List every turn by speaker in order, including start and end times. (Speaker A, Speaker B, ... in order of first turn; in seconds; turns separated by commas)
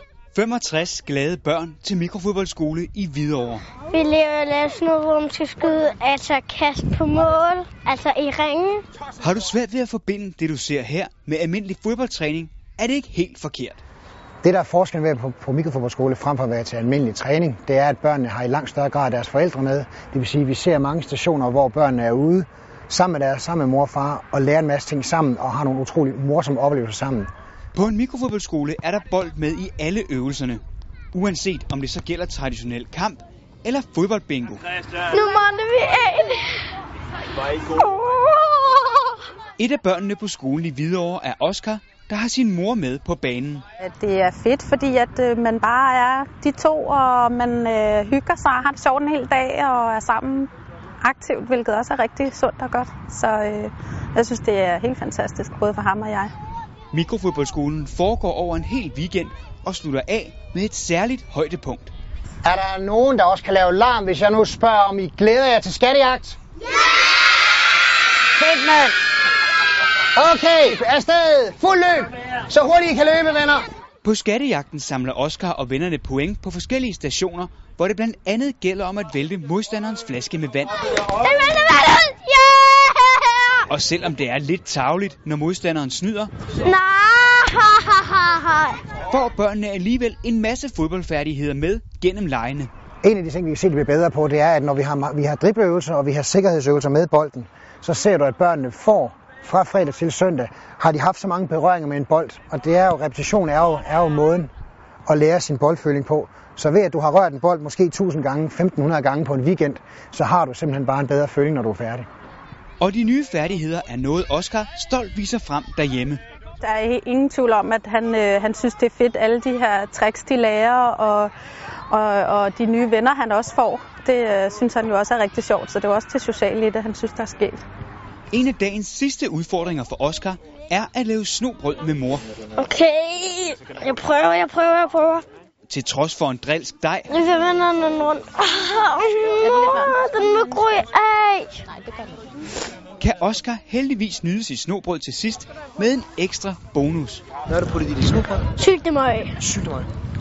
Speaker A: 0.3-3.6, Speaker B: 3.9-8.8, Speaker A: 9.2-13.8, Speaker C: 14.4-27.3, Speaker A: 27.7-30.6, Speaker A: 31.1-34.6, Speaker B: 35.0-36.7, Speaker B: 37.7-39.2, Speaker A: 39.6-43.6, Speaker D: 43.8-50.5, Speaker D: 51.0-56.3, Speaker A: 56.9-61.9, Speaker C: 62.4-66.4, Speaker C: 68.4-69.0, Speaker C: 70.1-73.7, Speaker A: 74.0-80.8, Speaker B: 81.0-83.6, Speaker A: 83.7-86.3, Speaker B: 86.6-88.8, Speaker A: 89.1-92.7, Speaker C: 93.0-104.5, Speaker C: 105.1-112.0, Speaker A: 112.8-116.2, Speaker D: 116.6-121.3, Speaker D: 121.9-127.6, Speaker A: 128.3-132.2, Speaker B: 132.6-135.2, Speaker A: 135.7-137.1, Speaker B: 137.1-141.6, Speaker D: 139.5-140.6, Speaker A: 143.0-147.2, Speaker C: 147.7-148.4, Speaker B: 148.6-149.4, Speaker C: 149.4-149.8